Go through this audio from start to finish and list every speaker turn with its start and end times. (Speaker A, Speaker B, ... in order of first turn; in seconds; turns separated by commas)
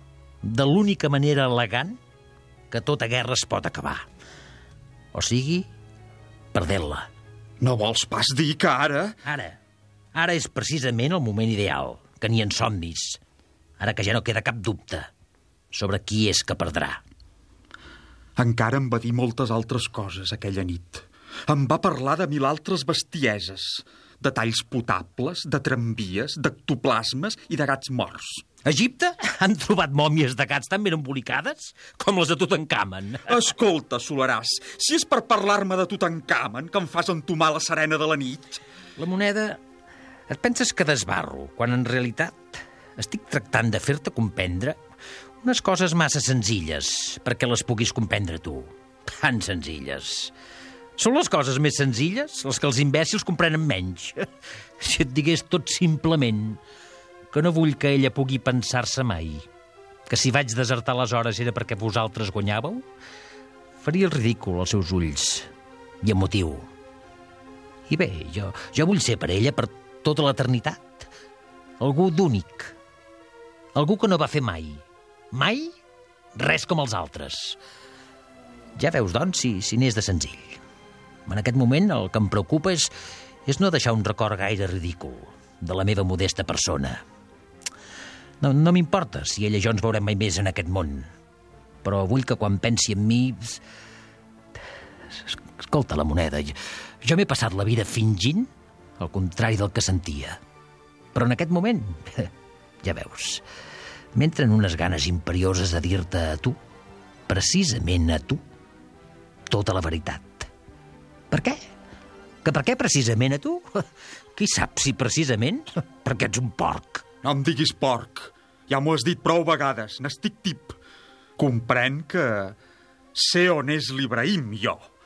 Speaker A: 0.4-2.0, Speaker A: 2.7-4.0, Speaker A: 5.1-5.7, Speaker A: 6.5-7.1, Speaker B: 7.6-9.2, Speaker A: 9.2-9.6, Speaker A: 10.1-13.2, Speaker A: 13.8-15.1, Speaker A: 15.7-17.0, Speaker B: 18.4-28.4, Speaker A: 28.6-33.3, Speaker B: 33.3-38.6, Speaker A: 39.0-39.6, Speaker A: 40.3-44.8, Speaker A: 45.4-50.3, Speaker A: 51.0-54.2, Speaker A: 54.8-56.6, Speaker A: 57.3-59.4, Speaker A: 60.1-62.8, Speaker A: 63.8-65.5, Speaker A: 66.0-66.7, Speaker A: 67.9-71.1, Speaker A: 71.8-72.7, Speaker A: 73.7-75.7, Speaker A: 76.3-77.6, Speaker A: 78.8-80.6, Speaker A: 81.2-82.9, Speaker A: 83.5-87.0, Speaker A: 88.4-91.1, Speaker A: 91.8-93.6, Speaker A: 95.1-100.4, Speaker A: 101.1-102.3, Speaker A: 102.8-103.4, Speaker A: 104.1-106.6, Speaker A: 107.3-108.4, Speaker A: 109.5-110.5, Speaker A: 111.3-111.7, Speaker A: 112.4-117.0, Speaker B: 117.2-120.8, Speaker B: 121.4-122.5, Speaker B: 123.1-124.8